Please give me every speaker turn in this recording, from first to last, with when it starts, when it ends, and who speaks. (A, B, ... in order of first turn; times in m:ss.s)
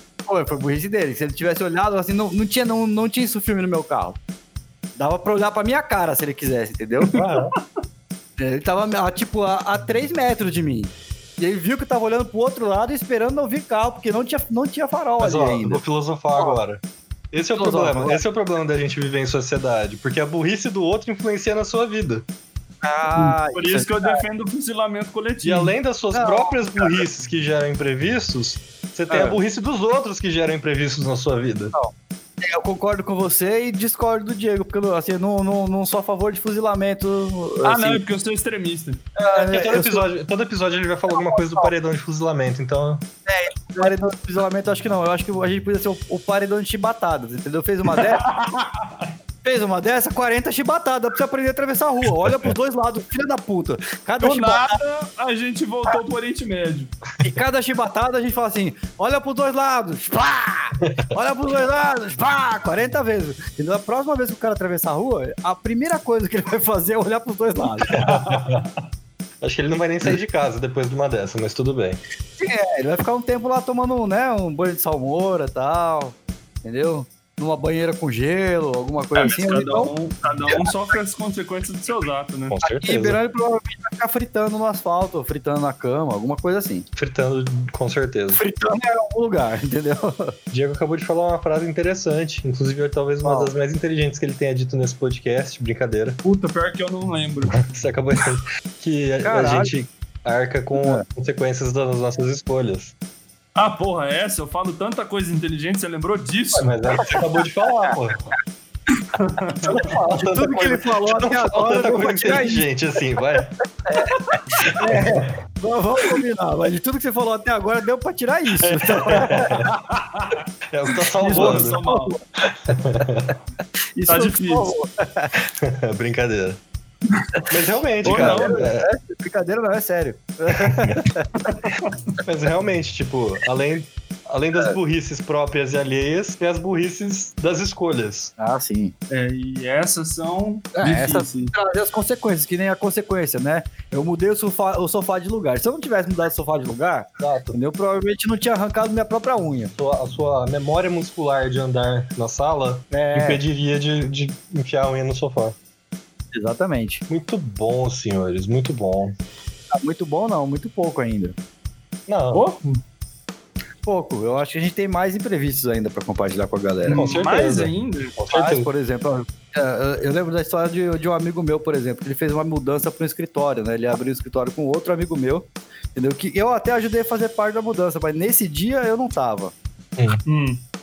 0:00.3-0:04.2 A
0:05.0-0:07.2 A
0:07.1-0:07.5 B
0:08.4-0:15.8 A
0:15.2-0:22.2 B
0:17.6-0:18.2 A
0:22.8-0:24.2 A
0:23.1-0:25.7 C
0:25.4-0:31.7 B
0:26.1-0:26.9 A
0:31.7-0:38.0 A
0:37.6-0:39.0 C
0:39.2-0:40.0 A
0:39.3-0:43.0 B
0:41.1-0:41.7 A
0:43.3-0:48.2 A
0:48.0-0:49.1 C
0:49.4-0:54.8 A
0:54.2-0:56.9 C
0:57.2-1:08.0 A
1:07.9-1:08.7 B
1:08.0-1:08.7 C
1:09.4-1:12.0 B
1:12.4-1:19.9 A
1:19.1-1:22.6 C
1:22.5-1:23.2 B
1:22.6-1:26.9 A
1:27.0-1:28.4 B
1:28.4-1:30.3 A
1:30.5-1:36.2 B
1:33.2-1:33.5 A
1:36.2-1:37.6 C
1:37.5-1:42.9 B
1:39.2-1:39.7 A
1:40.8-1:41.0 A
1:43.6-1:46.7 C
1:46.6-1:48.2 B
1:49.1-1:49.9 C
1:49.6-1:52.6 A
1:49.7-1:53.5 B
1:53.9-1:59.6 A
1:54.6-1:55.3 B
1:58.6-1:59.7 B
1:59.6-2:00.4 C
2:00.7-2:01.8 B
2:01.2-2:02.1 C
2:01.3-2:02.2 A
2:02.4-2:03.3 B
2:04.0-2:05.4 A
2:04.1-2:04.7 C
2:05.6-2:06.6 B
2:07.5-2:08.9 B
2:08.0-2:08.7 C
2:08.1-2:11.5 A
2:10.6-2:11.0 B
2:11.5-2:11.9 C
2:12.2-2:18.3 B
2:18.4-2:18.9 A
2:19.1-2:21.5 C
2:20.7-2:29.7 A
2:27.2-2:27.6 B
2:29.8-2:35.6 B
2:32.9-2:33.4 A
2:36.3-2:37.0 A
2:37.1-2:39.2 B
2:39.7-2:41.4 A
2:42.1-2:42.4 B
2:42.3-2:42.8 C
2:43.8-2:47.1 A
2:46.8-2:48.2 C
2:46.9-2:48.7 B
2:48.3-2:59.5 A
3:00.0-3:00.2 B
3:00.2-3:00.6 C